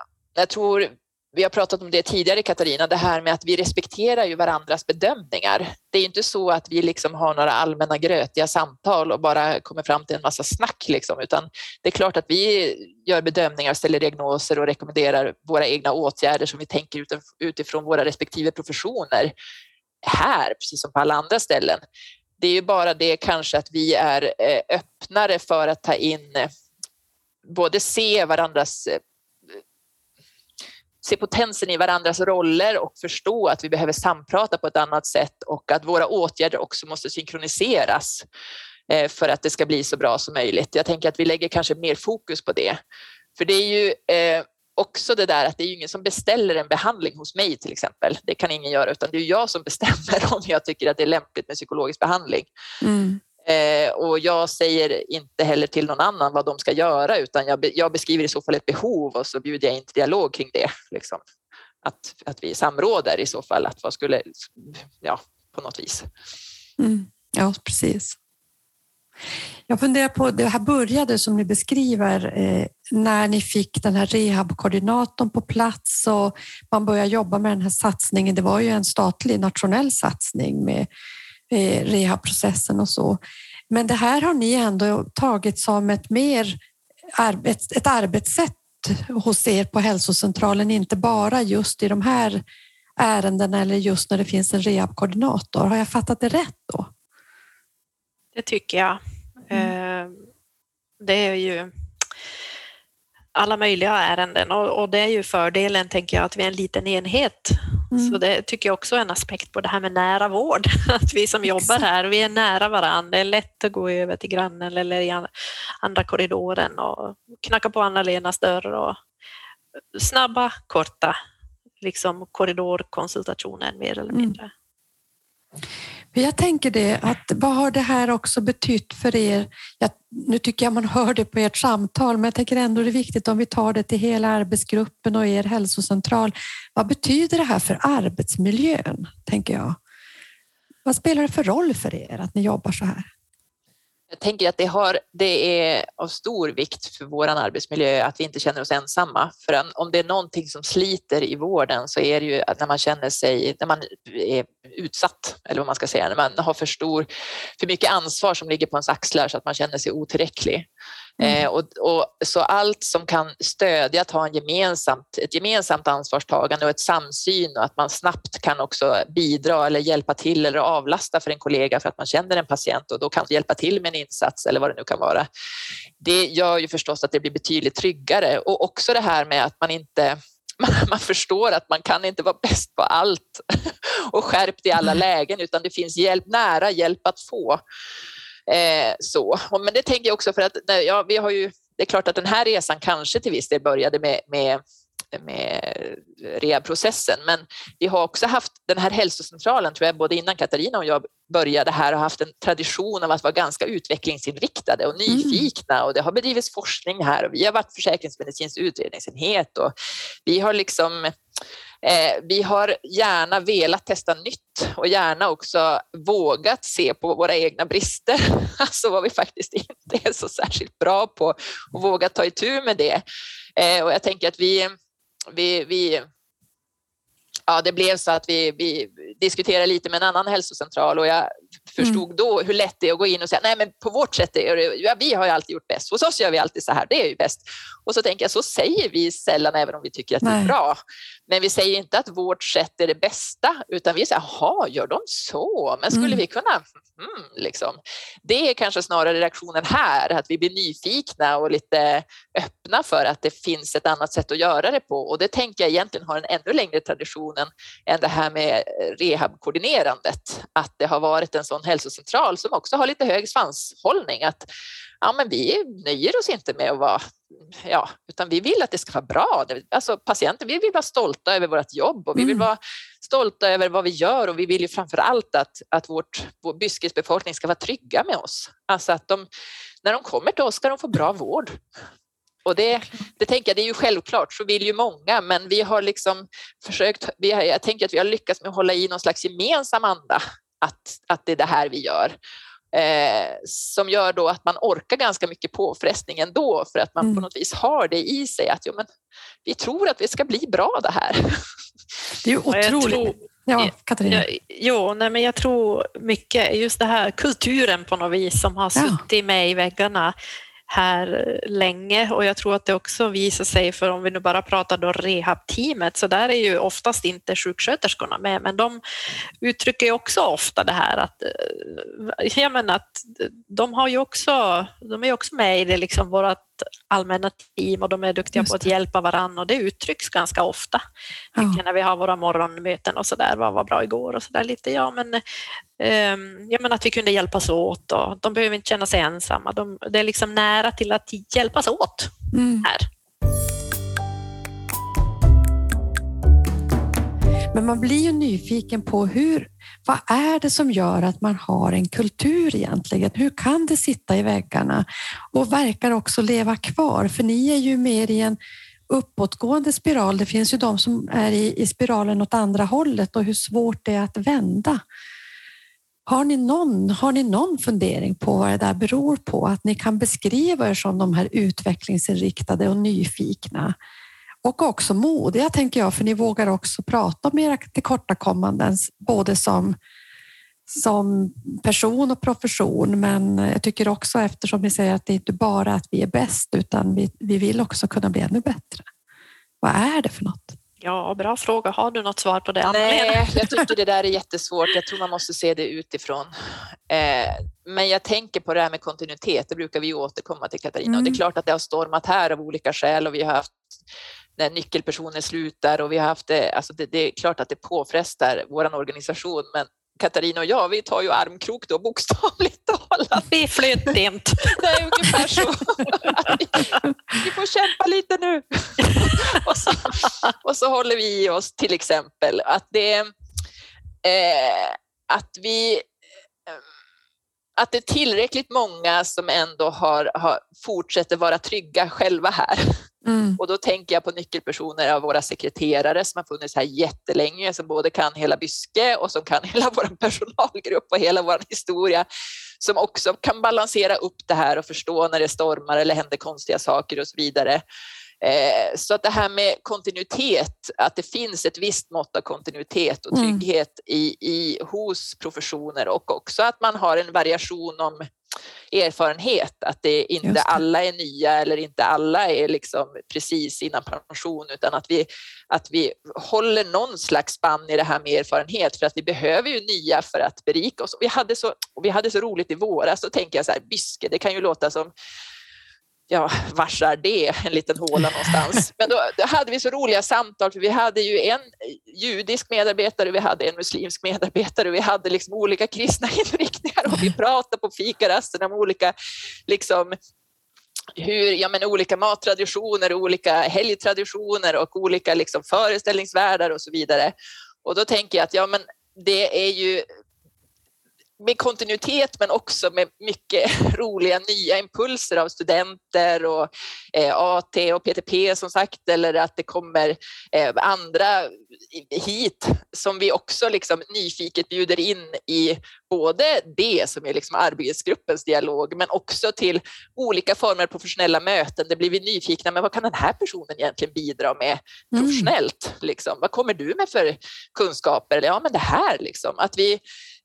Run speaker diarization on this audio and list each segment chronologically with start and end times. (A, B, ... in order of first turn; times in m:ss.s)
0:00.4-0:19.3 A
0:20.0-0:21.8 A
0:22.4-0:26.5 A
0:27.4-0:29.0 A
0:31.0-0:38.2 A
0:38.9-0:42.8 A
0:43.4-0:52.5 A
0:52.8-0:53.2 B
0:53.4-1:01.2 A
1:01.8-1:06.0 A
1:06.8-1:08.2 B
1:09.7-1:20.9 B
1:21.5-1:23.2 B
1:23.7-1:26.6 B
1:27.1-1:32.4 B
1:33.0-1:36.9 B
1:38.4-1:40.2 C
1:41.0-1:41.7 C
1:43.4-1:55.3 C
1:47.9-1:48.2 B
1:51.5-1:51.8 B
1:55.8-1:59.0 C
1:59.9-2:01.1 C
2:01.8-2:04.5 C
2:04.1-2:04.4 B
2:06.1-2:19.8 B
2:20.8-2:23.1 B
2:24.1-2:37.0 A
2:37.6-2:40.7 A
2:41.2-2:55.2 A
2:41.2-2:41.4 B
2:56.0-3:07.6 A
3:08.5-3:14.6 A
3:15.1-3:29.7 A
3:25.1-3:25.5 B
3:30.2-3:31.1 A
3:31.8-3:43.0 A
3:43.6-3:44.7 A
3:45.3-3:46.0 A
3:47.5-4:24.4 A
4:00.2-4:00.5 B
4:05.9-4:06.2 B
4:25.0-4:39.2 A
4:32.2-4:32.5 B
4:39.8-4:41.6 A
4:42.4-4:52.1 A
4:52.7-4:58.9 A
4:57.0-4:57.2 B
4:59.4-5:01.4 A
5:02.2-5:04.2 B
5:02.5-5:10.1 C
5:08.8-5:09.0 B
5:10.7-5:18.8 C
5:19.4-5:30.8 C
5:31.4-5:35.2 C
5:35.8-5:42.1 C
5:42.3-5:42.7 B
5:47.5-5:58.4 B
5:58.9-6:04.8 B
6:06.1-6:13.7 B
6:14.4-6:19.8 B
6:20.7-6:28.8 B
6:29.6-6:30.6 B
6:30.8-6:33.2 C
6:32.6-6:36.3 A
6:36.9-6:43.5 A
6:40.9-6:41.2 B
6:44.4-6:53.3 A
6:53.2-6:55.4 C
6:54.4-7:03.1 A
6:58.9-6:59.4 C
7:04.0-7:05.9 A
7:07.6-7:12.7 A
7:13.0-7:13.4 B
7:13.4-7:22.0 A
7:22.6-7:27.6 A
7:28.2-7:38.0 A
7:33.1-7:33.4 B
7:38.7-7:54.9 A
7:40.2-7:40.6 B
7:56.1-8:08.9 A
8:09.5-8:10.0 A
8:11.0-8:17.1 A
8:17.6-8:19.8 A
8:21.2-8:49.8 A
8:44.9-8:45.3 B